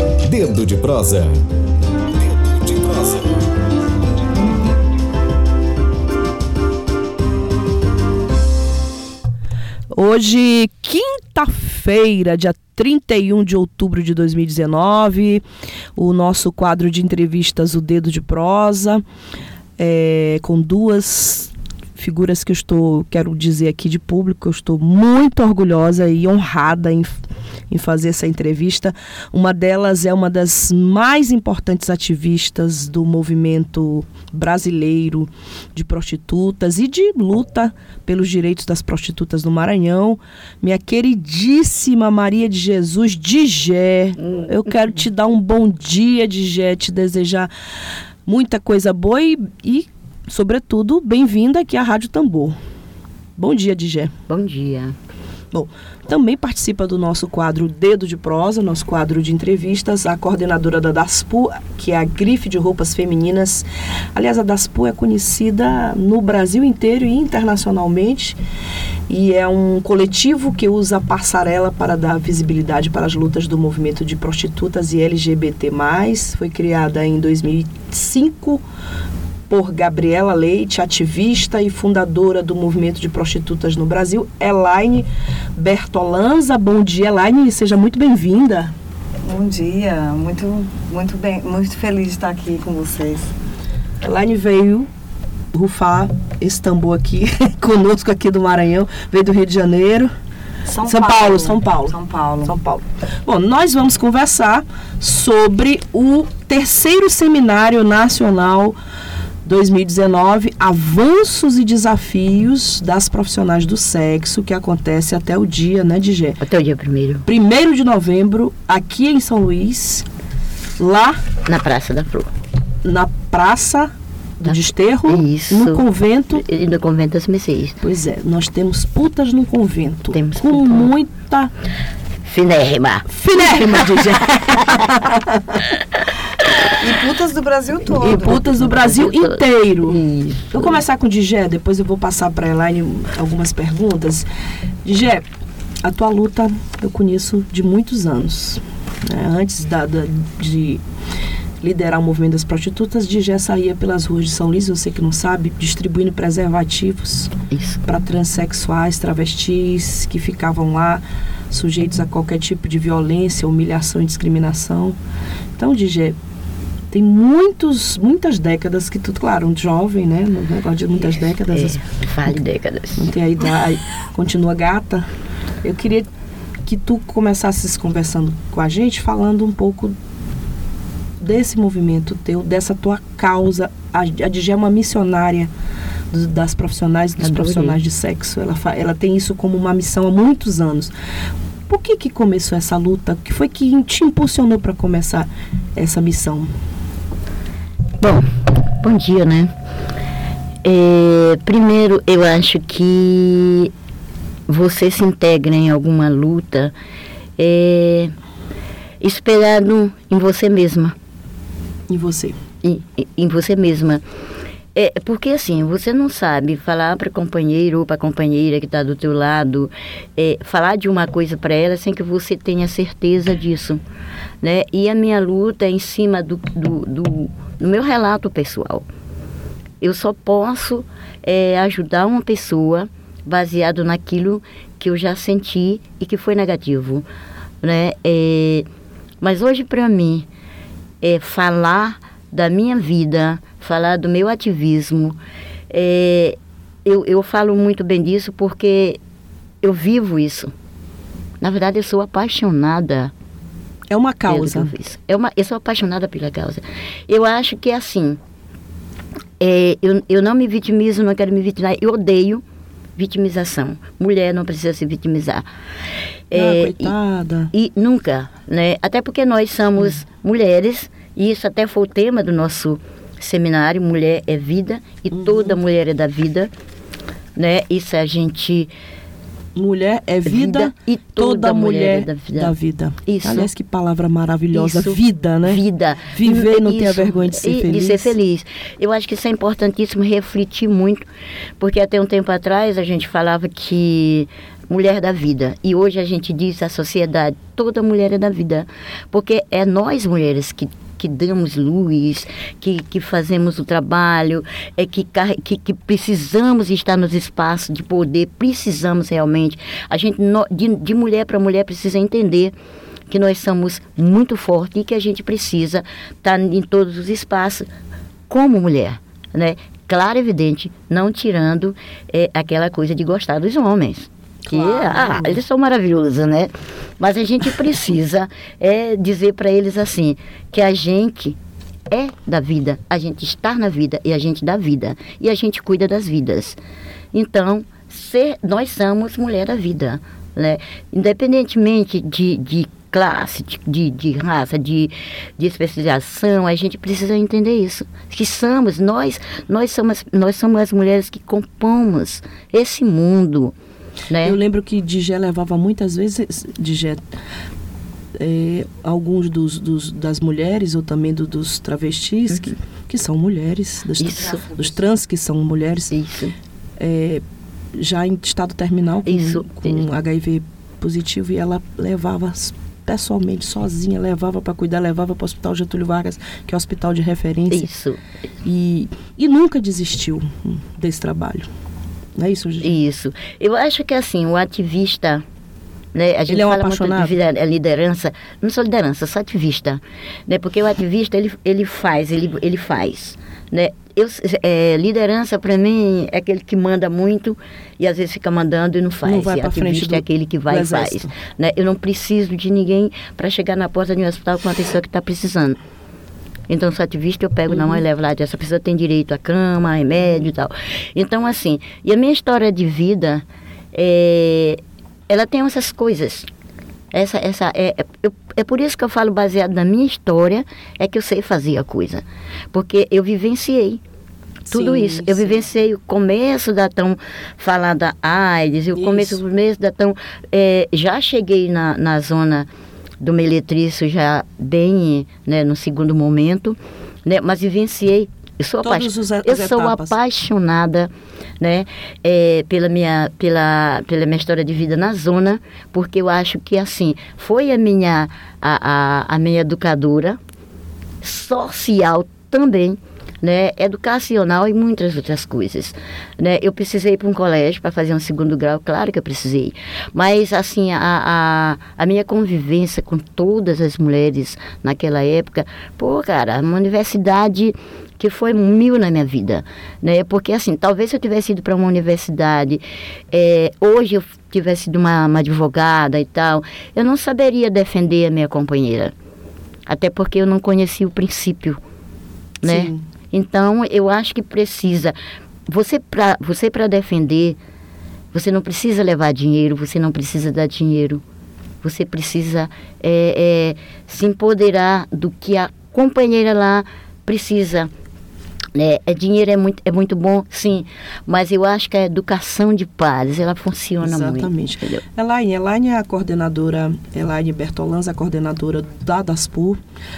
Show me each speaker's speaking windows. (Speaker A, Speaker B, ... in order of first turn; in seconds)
Speaker A: 0.2-1.4, 2.1-3.4
Speaker B: 9.9-15.4, 16.0-19.0, 19.8-27.1, 27.7-47.5, 48.2-52.5, 53.4-54.1, 55.5-68.4, 69.1-78.6, 79.5-88.7, 94.0-94.9, 95.5-100.1, 100.8-108.8, 109.4-116.4, 117.3-120.1, 120.8-121.2, 122.8-123.9, 124.4-126.4, 127.8-131.5, 133.1-135.5, 138.0-140.0, 140.5-144.2, 144.8-145.2, 145.8-150.8, 151.6-165.0, 165.6-166.2, 166.9-172.4, 172.9-175.1, 175.6-176.1, 176.6-180.0, 181.2-185.5, 186.1-190.9, 191.7-196.5, 211.9-212.3, 253.9-254.7, 266.3-267.5, 275.1-275.6, 279.6-288.1, 324.5-325.4, 354.2-357.0, 358.2-365.9, 366.8-367.2, 367.8-377.7, 378.4-381.5, 382.2-382.7, 386.3-387.2, 399.0-401.1, 407.5-407.8, 424.5-425.4, 428.8-429.2, 438.6-439.9, 482.4-482.8, 503.8-509.6
Speaker C: 54.3-55.0, 116.4-117.2, 121.5-122.3, 124.4-127.8, 130.1-130.9, 132.3-135.0, 138.0-140.8, 157.5-157.8, 171.5-173.1, 187.2-187.8, 198.0-199.5, 200.6-203.7, 204.5-206.7, 207.4-208.1, 209.0-210.9, 212.6-214.0, 214.7-223.8, 224.4-228.8, 229.8-237.1, 237.6-238.7, 239.2-240.3, 241.0-245.2, 245.7-249.0, 249.6-250.5, 251.4-253.1, 254.3-258.2, 259.4-262.4, 263.0-265.5, 266.3-266.9, 267.5-276.5, 277.4-278.7, 280.2-283.5, 284.5-291.1, 291.6-312.6, 313.1-317.7, 318.3-331.4, 331.9-336.6, 337.1-353.6, 354.1-354.4, 364.0-364.6, 365.9-366.3, 369.1-369.9, 377.5-378.0, 382.6-385.2, 385.9-405.6, 406.5-416.3, 416.9-423.8, 424.5-432.5, 433.0-450.2, 451.0-478.9, 479.7-481.6, 482.4-485.0, 485.5-487.4, 488.1-491.0, 491.6-497.7, 498.6-504.8
Speaker D: 89.3-93.3, 100.7-102.5, 136.8-138.4